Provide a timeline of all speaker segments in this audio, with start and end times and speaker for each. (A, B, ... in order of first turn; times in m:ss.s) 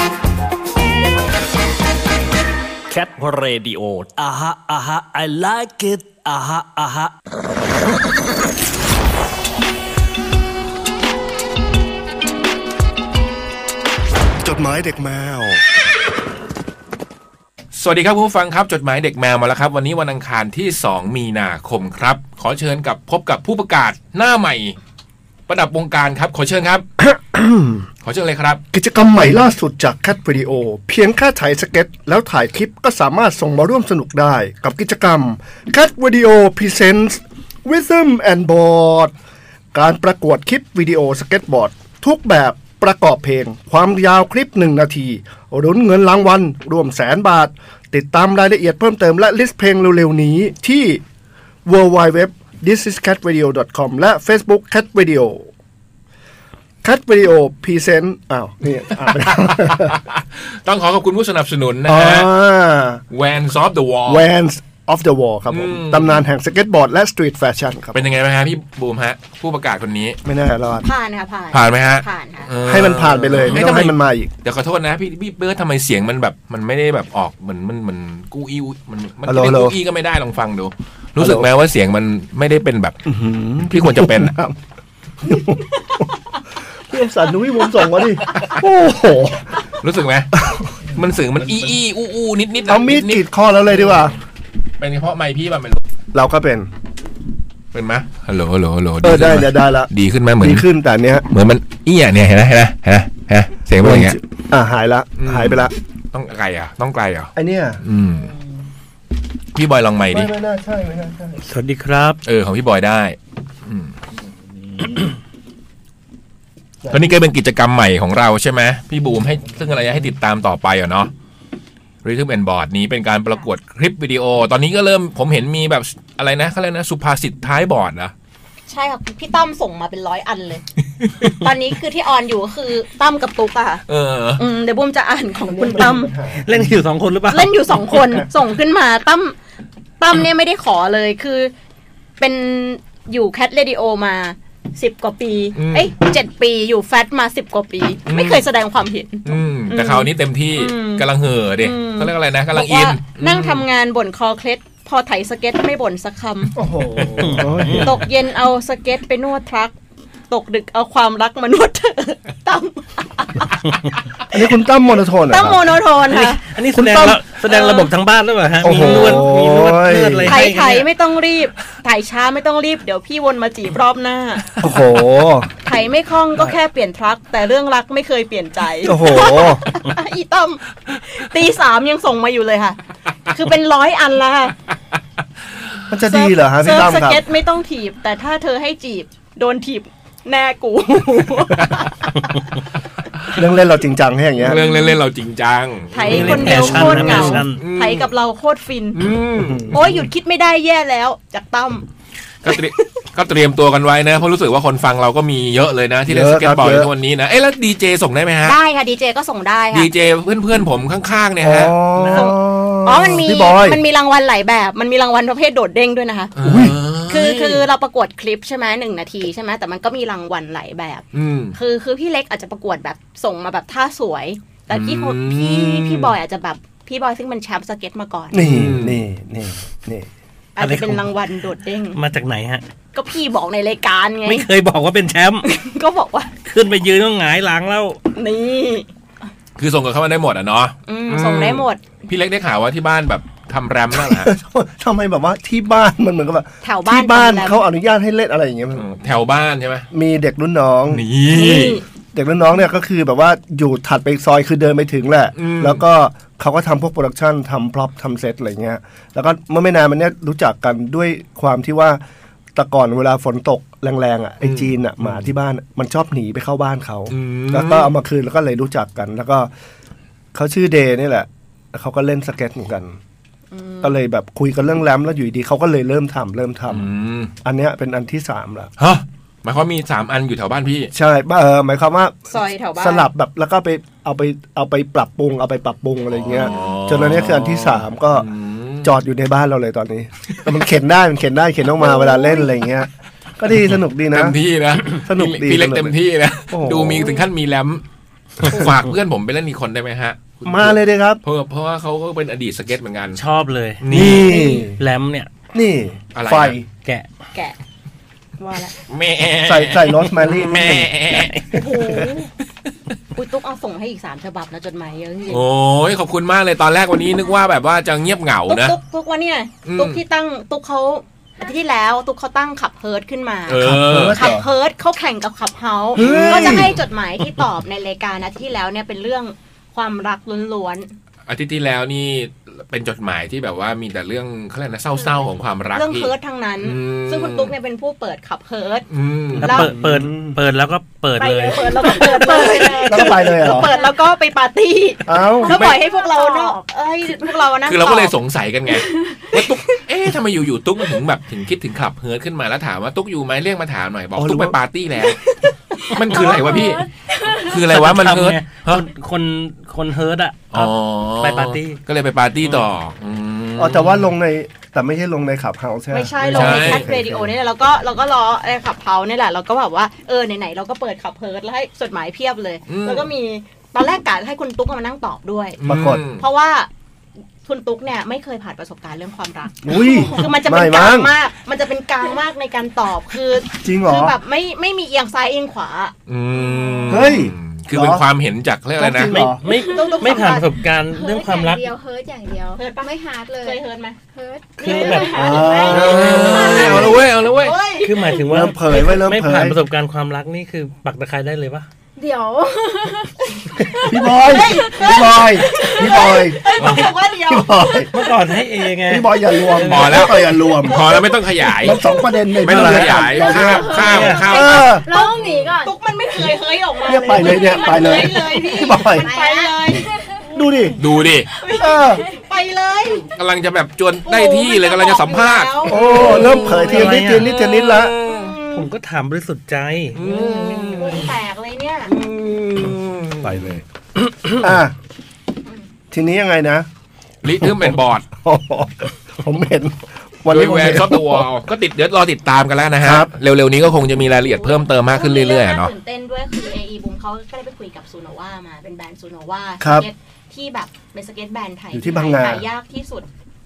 0:02.9-0:07.1 A
0:14.4-0:15.6 B
0:17.7-0:24.8 C
0:25.5-0:26.8 C
0:27.0-0:27.9 B
0:28.0-0:28.6 C
0:28.7-0:39.1 B
0:39.7-0:51.0 B
0:51.6-0:55.5 B
0:56.8-1:00.0 B
0:59.7-1:02.3 C
1:01.8-1:03.0 B
1:03.1-1:04.3 C
1:04.1-1:08.0 B
1:05.5-1:06.2 C
1:07.9-1:10.2 C
1:10.2-1:10.8 B
1:10.8-1:12.5 D
1:11.5-1:23.0 C
1:12.6-1:14.3 B
1:19.2-1:19.7 B
1:21.2-1:21.5 B
1:23.0-1:24.6 B
1:23.7-1:24.4 C
1:25.2-1:26.0 B
1:26.9-1:29.6 B
1:29.8-1:30.4 C
1:30.9-1:33.2 C
1:32.6-1:34.2 B
1:33.7-1:34.1 C
1:34.8-1:35.8 C
1:36.1-1:36.7 B
1:37.7-1:40.7 C
1:39.0-1:41.3 B
1:41.3-1:44.2 C
1:43.8-1:45.7 B
1:45.2-1:48.3 C
1:47.3-1:47.8 B
1:49.5-1:50.3 C
1:50.1-1:51.4 B
1:51.4-1:52.2 E
1:52.2-1:53.9 C
1:56.9-2:01.1 C
2:02.0-2:08.1 C
2:08.7-2:10.6 D
2:11.0-2:11.4 C
2:11.2-2:13.8 D
2:13.9-2:14.4 C
2:14.4-2:16.1 D
2:15.4-2:16.8 B
2:16.4-2:17.6 E
2:17.3-2:19.4 D
2:17.9-2:18.3 B
2:20.0-2:21.5 D
2:22.2-2:31.0 D
2:25.5-2:25.9 C
2:28.1-2:28.4 C
2:29.2-2:33.6 C
2:31.6-2:36.6 D
2:36.5-2:38.0 B
2:37.0-2:37.7 C
2:37.2-2:38.0 E
2:37.8-2:39.8 D
2:40.3-2:44.4 D
2:44.3-2:45.8 B
2:45.3-2:46.4 D
2:46.2-2:50.9 E
2:46.7-2:47.2 B
2:47.4-2:47.9 D
2:48.6-2:50.4 B
2:48.6-2:49.3 D
2:50.2-2:54.5 D
2:54.6-2:55.5 B
2:55.6-3:04.5 D
2:58.8-2:59.6 B
3:05.9-3:07.2 B
3:06.1-3:12.4 D
3:13.3-3:14.6 B
3:14.4-3:16.7 C
3:14.5-3:15.0 D
3:15.9-3:19.0 D
3:16.0-3:17.6 E
3:16.1-3:17.4 B
3:17.4-3:18.1 C
3:18.9-3:20.0 C
3:19.4-3:19.9 B
3:19.7-3:21.9 D
3:22.4-3:28.6 C
3:22.5-3:22.8 D
3:26.1-3:26.9 B
3:28.4-3:29.9 D
3:29.7-3:31.7 C
3:31.4-3:33.8 B
3:32.0-3:32.3 E
3:32.1-3:36.4 D
3:36.4-3:37.6 C
3:36.4-3:36.8 B
3:37.1-3:48.6 D
3:41.1-3:41.6 C
3:44.7-3:46.1 C
3:48.3-3:50.1 B
3:48.4-3:49.0 C
3:50.6-3:52.0 D
3:50.6-3:51.1 E
3:51.9-3:52.6 E
3:52.9-3:54.5 D
3:54.2-3:55.5 E
3:55.4-3:56.3 D
3:56.4-3:58.0 E
3:58.1-3:58.9 D
3:59.6-4:04.3 C
4:00.8-4:01.8 D
4:03.9-4:08.9 B
4:06.6-4:07.6 D
4:08.7-4:09.9 C
4:09.9-4:11.0 B
4:10.9-4:11.8 C
4:11.3-4:11.8 D
4:12.1-4:22.0 B
4:15.4-4:15.8 C
4:22.5-4:29.5 B
4:24.4-4:25.3 C
4:27.1-4:27.9 C
4:30.3-4:33.0 B
4:33.5-4:34.0 D
4:33.8-4:36.9 B
4:36.7-4:37.3 C
4:37.4-4:38.7 B
4:38.8-4:40.9 C
4:40.9-4:48.3 B
4:42.3-4:43.1 D
4:46.1-4:48.9 C
4:48.8-4:54.4 B
4:51.8-4:52.5 D
4:54.1-4:57.8 C
4:54.9-4:56.0 B
4:56.5-4:57.2 B
4:58.4-5:03.2 C
4:58.4-4:58.7 D
5:00.4-5:01.2 B
5:03.1-5:05.3 E
5:03.8-5:04.3 C
5:03.9-5:04.8 B
5:04.3-5:04.7 D
5:05.5-5:06.6 B
5:06.1-5:06.6 C
5:06.8-5:07.1 E
5:08.4-5:08.7 D
5:08.8-5:12.1 C
5:09.4-5:11.0 B
5:11.5-5:12.3 D
5:13.1-5:15.4 D
5:15.3-5:18.8 C
5:18.5-5:30.9 D
5:19.6-5:20.0 C
5:23.5-5:24.2 C
5:23.6-5:24.5 B
5:25.9-5:26.8 B
5:26.0-5:26.7 C
5:31.3-5:37.5 C
5:35.7-5:38.8 D
5:38.9-5:39.7 C
5:39.4-5:42.8 E
5:39.4-5:40.4 B
5:39.4-5:39.7 D
5:41.2-5:48.1 D
5:41.2-5:44.0 F
5:42.8-5:43.7 B
5:45.0-5:45.6 B
5:45.4-5:46.6 F
5:45.5-5:45.8 C
5:47.6-5:55.2 C
5:54.2-5:54.6 B
5:55.7-5:56.6 D
5:55.9-5:56.9 C
5:56.1-5:57.5 F
5:57.4-5:58.9 C
5:57.5-6:01.8 E
6:00.5-6:04.1 C
6:03.6-6:07.3 B
6:05.9-6:15.6 D
6:06.2-6:06.9 C
6:12.7-6:13.1 C
6:15.6-6:16.2 C
6:15.6-6:16.0 B
6:16.1-6:16.7 D
6:17.4-6:25.9 D
6:19.6-6:21.1 B
6:19.8-6:20.1 F
6:23.6-6:24.1 B
6:26.1-6:29.3 C
6:26.4-6:27.0 F
6:26.9-6:28.0 B
6:28.8-6:29.4 B
6:29.4-6:31.7 E
6:29.5-6:33.6 F
6:29.5-6:30.5 D
6:32.5-6:34.0 D
6:34.1-6:37.2 F
6:34.6-6:38.2 D
6:34.6-6:35.1 E
6:35.1-6:37.0 B
6:35.7-6:37.6 C
6:37.8-6:41.7 E
6:38.3-6:39.6 B
6:42.0-6:46.6 F
6:43.6-6:48.0 D
6:43.8-6:47.9 B
6:47.9-6:50.3 E
6:48.9-6:50.9 B
6:49.6-6:51.8 C
6:51.6-6:54.9 B
6:52.4-6:54.7 C
6:52.6-6:52.9 E
6:53.0-6:55.7 F
6:53.7-6:59.9 D
6:53.8-6:54.3 E
6:56.8-7:00.4 F
6:56.8-6:59.1 B
7:00.3-7:00.8 B
7:00.6-7:00.8 D
7:00.8-7:01.3 C
7:01.4-7:03.1 D
7:01.4-7:02.2 F
7:01.6-7:02.0 B
7:03.1-7:08.7 C
7:04.0-7:06.9 D
7:05.6-7:07.9 B
7:06.6-7:07.3 E
7:08.5-7:10.8 E
7:09.9-7:11.1 C
7:10.1-7:10.5 F
7:10.2-7:11.9 D
7:11.9-7:13.6 C
7:13.2-7:14.7 B
7:15.9-7:16.7 B
7:17.2-7:18.1 C
7:17.4-7:21.2 B
7:20.3-7:25.7 C
7:22.8-7:23.1 B
7:24.2-7:33.1 D
7:29.6-7:29.9 B
7:31.7-7:32.4 B